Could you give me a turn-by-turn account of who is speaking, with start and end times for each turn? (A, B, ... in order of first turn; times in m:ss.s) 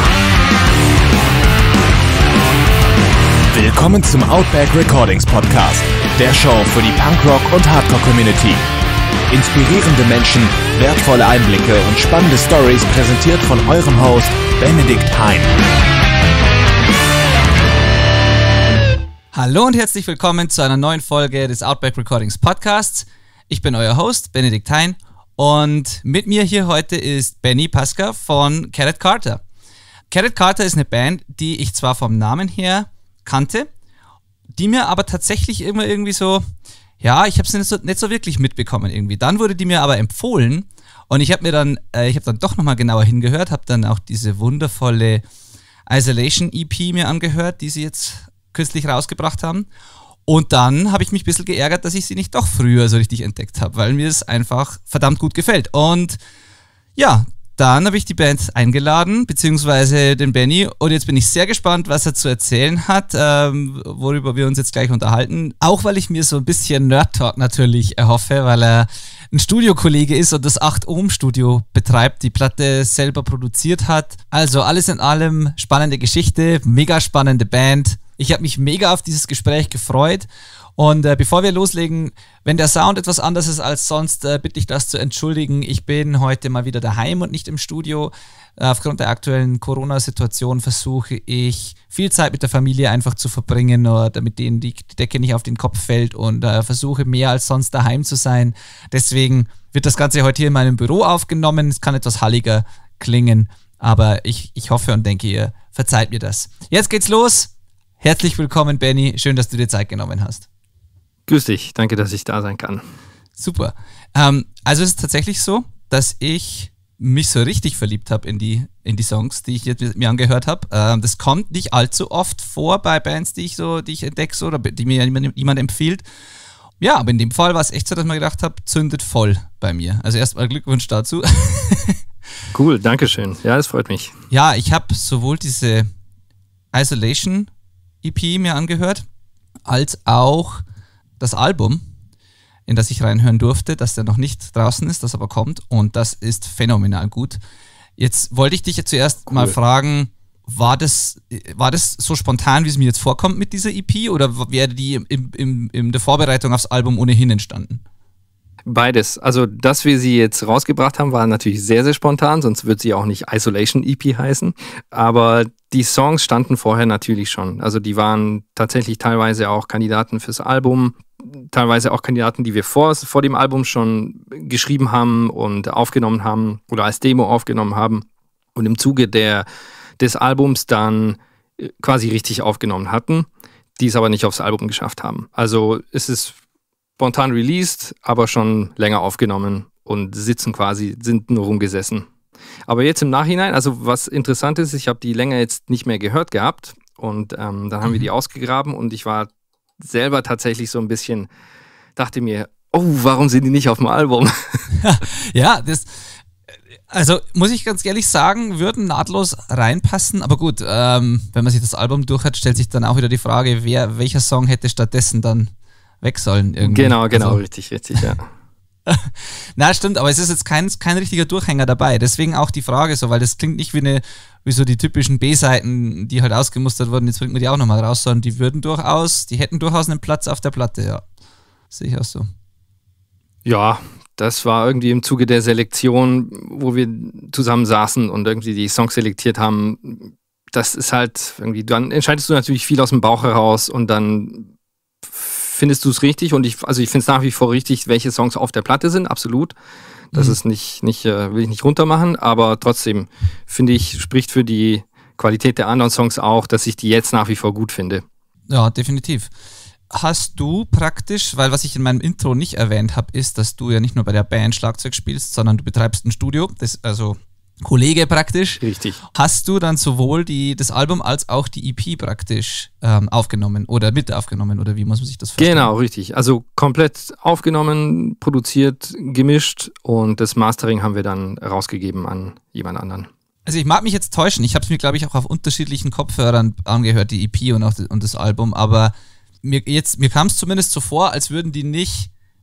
0:03.5-0:08.6 A
0:09.3-0:15.5 A
0:19.3-0:29.4 B
0:30.1-0:33.7 B
0:34.6-0:36.4 B
0:37.0-0:45.2 B
0:45.9-0:49.7 B
0:50.3-0:56.2 B
0:57.0-1:50.5 B
1:51.3-1:52.8 C
1:53.4-2:06.0 B
2:06.8-2:12.0 B
2:12.5-2:14.2 C
2:14.3-2:15.9 B
2:16.7-2:17.5 B
2:18.0-2:19.0 B
2:19.7-2:20.6 B
2:21.2-2:21.8 B
2:22.7-2:27.4 B
2:28.0-2:37.8 B
2:29.3-2:29.6 C
2:38.6-2:59.5 C
3:00.0-3:03.3 C
3:03.8-3:06.4 C
3:07.0-3:12.1 C
3:12.7-3:21.3 C
3:22.0-3:24.7 C
3:24.7-3:26.2 B
3:26.9-3:37.4 B
3:36.6-3:38.3 C
3:38.9-3:51.0 B
3:51.7-3:52.3 B
3:53.4-4:04.5 C
4:05.0-4:09.6 C
4:10.1-4:18.0 C
4:18.5-4:19.3 B
4:19.9-4:35.7 B
4:28.6-4:29.0 C
4:35.4-4:43.1 C
4:43.5-4:52.1 B